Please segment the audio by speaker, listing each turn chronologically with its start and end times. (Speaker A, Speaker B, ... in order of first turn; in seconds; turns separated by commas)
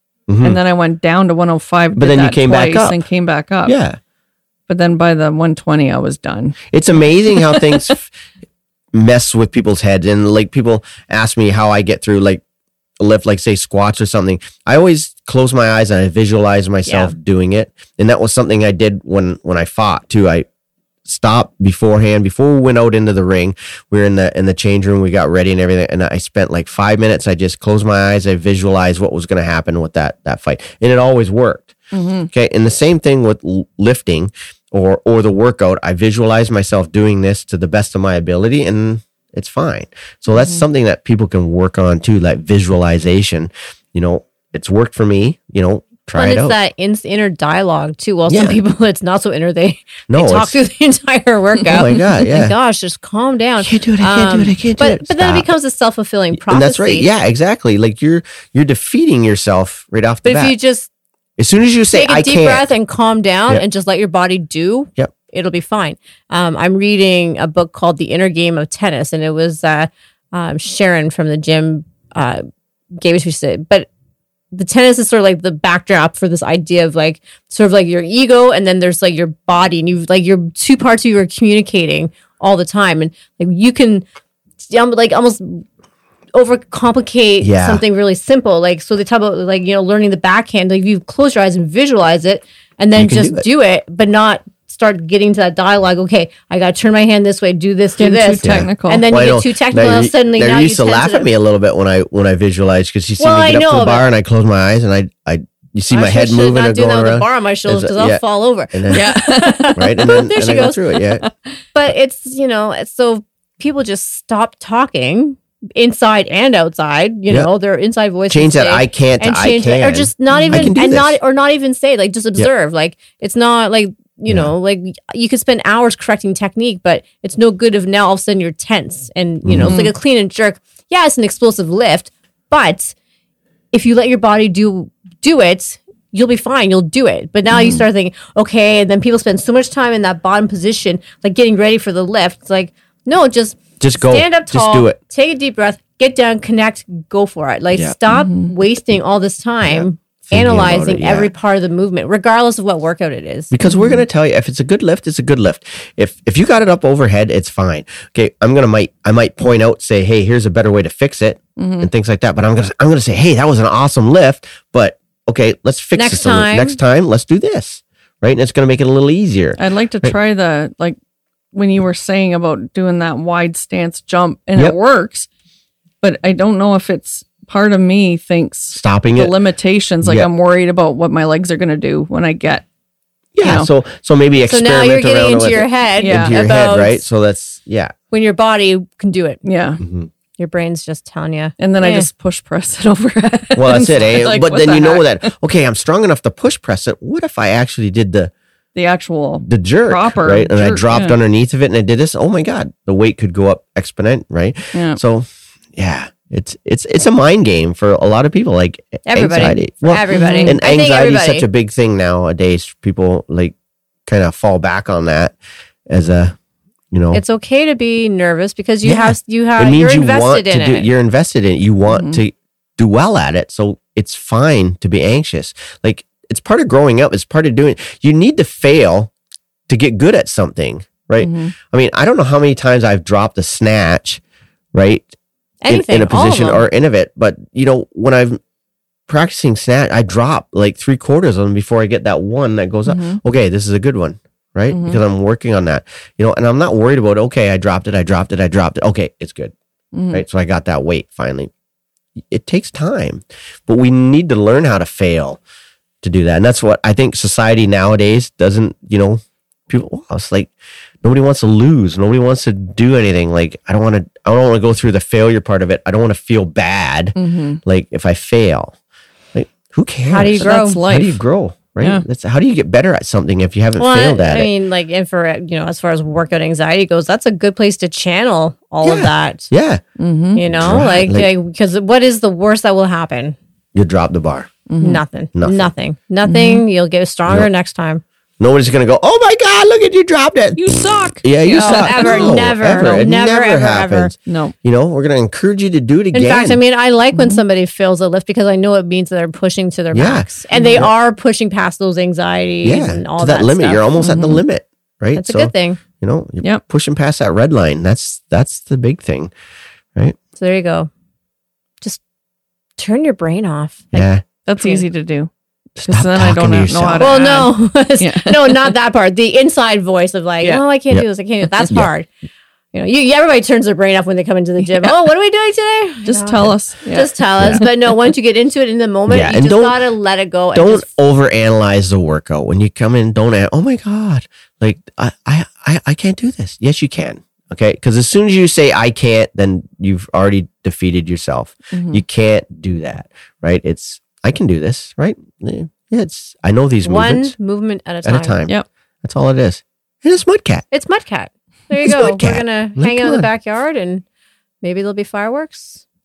Speaker A: 0.3-0.6, Speaker B: 0.4-3.8, Speaker A: 1.9-3.0, Speaker A: 3.6-4.0, Speaker B: 4.7-6.7, Speaker A: 6.7-8.1, Speaker B: 7.3-7.9, Speaker A: 8.9-12.4, Speaker A: 13.0-20.5, Speaker C: 16.9-17.1, Speaker A: 21.1-31.7, Speaker B: 31.9-32.3, Speaker A: 32.3-46.5, Speaker B: 40.3-40.6, Speaker C: 46.1-57.1, Speaker A: 48.3-48.6, Speaker A: 50.1-50.6, Speaker A: 51.7-52.5, Speaker A: 53.6-55.5, Speaker A: 56.3-60.5, Speaker C: 60.2-60.9, Speaker A: 61.4-62.7, Speaker C: 61.9-72.4, Speaker C: 72.9-73.9, Speaker C: 74.5-84.0, Speaker C: 84.6-85.6, Speaker C: 86.3-101.3, Speaker A: 87.4-87.8, Speaker A: 92.9-93.4, Speaker B: 98.0-99.0, Speaker A: 98.4-109.1, Speaker C: 103.2-104.1, Speaker C: 105.9-111.0, Speaker B: 108.9-110.2, Speaker A: 109.7-111.2, Speaker C: 111.7-132.9, Speaker A: 118.3-121.2, Speaker B: 120.3-120.7, Speaker A: 124.3-124.5, Speaker A: 129.4-129.9, Speaker B: 129.6-129.9, Speaker C: 133.7-153.5, Speaker B: 137.5-137.8, Speaker A: 143.8-145.0, Speaker B: 148.1-148.5, Speaker A: 149.6-151.3, Speaker A: 153.5-170.1, Speaker B: 153.6-154.0, Speaker B: 161.6-161.9, Speaker C: 165.9-166.8, Speaker B: 169.6-171.0, Speaker B: 171.5-175.3, Speaker B: 176.0-182.6, Speaker A: 178.7-179.3, Speaker A: 180.0-180.3, Speaker A: 183.3-187.9, Speaker B: 183.4-183.7, Speaker C: 184.4-187.0, Speaker B: 186.0-186.4, Speaker C: 188.1-189.4, Speaker B: 189.4-189.8, Speaker A: 189.8-190.1, Speaker C: 190.4-192.1, Speaker B: 191.6-195.3, Speaker A: 193.6-198.3, Speaker B: 198.7-201.2, Speaker A: 199.4-213.5, Speaker B: 204.7-205.0, Speaker C: 209.1-211.5, Speaker B: 210.1-210.6, Speaker A: 214.1-215.3, Speaker A: 215.9-216.3, Speaker A: 216.9-217.2, Speaker C: 217.1-220.9, Speaker A: 218.8-229.1, Speaker B: 221.9-222.2, Speaker A: 229.7-234.2, Speaker B: 231.2-231.5, Speaker A: 234.7-235.1, Speaker C: 235.6-236.7, Speaker A: 235.7-238.4, Speaker A: 239.1-249.5, Speaker B: 242.8-243.2, Speaker B: 244.7-245.0, Speaker B: 249.9-250.2, Speaker A: 250.1-251.5, Speaker A: 252.3-255.4, Speaker A: 256.0-260.5, Speaker A: 261.0-268.7, Speaker B: 267.1-267.6, Speaker A: 269.3-274.5, Speaker C: 270.1-270.8, Speaker B: 270.4-271.2, Speaker B: 271.8-272.1, Speaker C: 273.8-279.5, Speaker A: 278.8-279.8, Speaker B: 280.0-280.4, Speaker C: 280.3-283.4, Speaker A: 280.4-281.3, Speaker A: 283.7-284.5, Speaker B: 284.7-285.0, Speaker C: 284.8-288.0, Speaker A: 285.3-285.7, Speaker B: 286.2-286.6, Speaker A: 288.4-296.6, Speaker B: 290.6-293.1, Speaker C: 291.6-294.1, Speaker B: 294.2-294.5, Speaker C: 296.1-303.9, Speaker B: 297.1-297.4, Speaker A: 299.9-300.9, Speaker B: 300.5-300.8, Speaker A: 302.6-309.3, Speaker B: 304.0-304.4, Speaker C: 305.1-305.8, Speaker C: 310.4-310.9, Speaker C: 312.8-314.9, Speaker A: 313.9-314.2, Speaker B: 314.4-315.3, Speaker A: 315.8-317.3, Speaker B: 315.9-318.7, Speaker C: 317.0-322.1, Speaker A: 321.6-321.9, Speaker C: 322.7-330.9, Speaker B: 326.0-327.6, Speaker A: 329.1-329.8, Speaker A: 330.5-347.3, Speaker B: 341.7-342.0, Speaker C: 346.8-348.4, Speaker A: 348.0-350.6, Speaker C: 350.7-354.0, Speaker A: 351.8-353.3, Speaker C: 354.6-355.8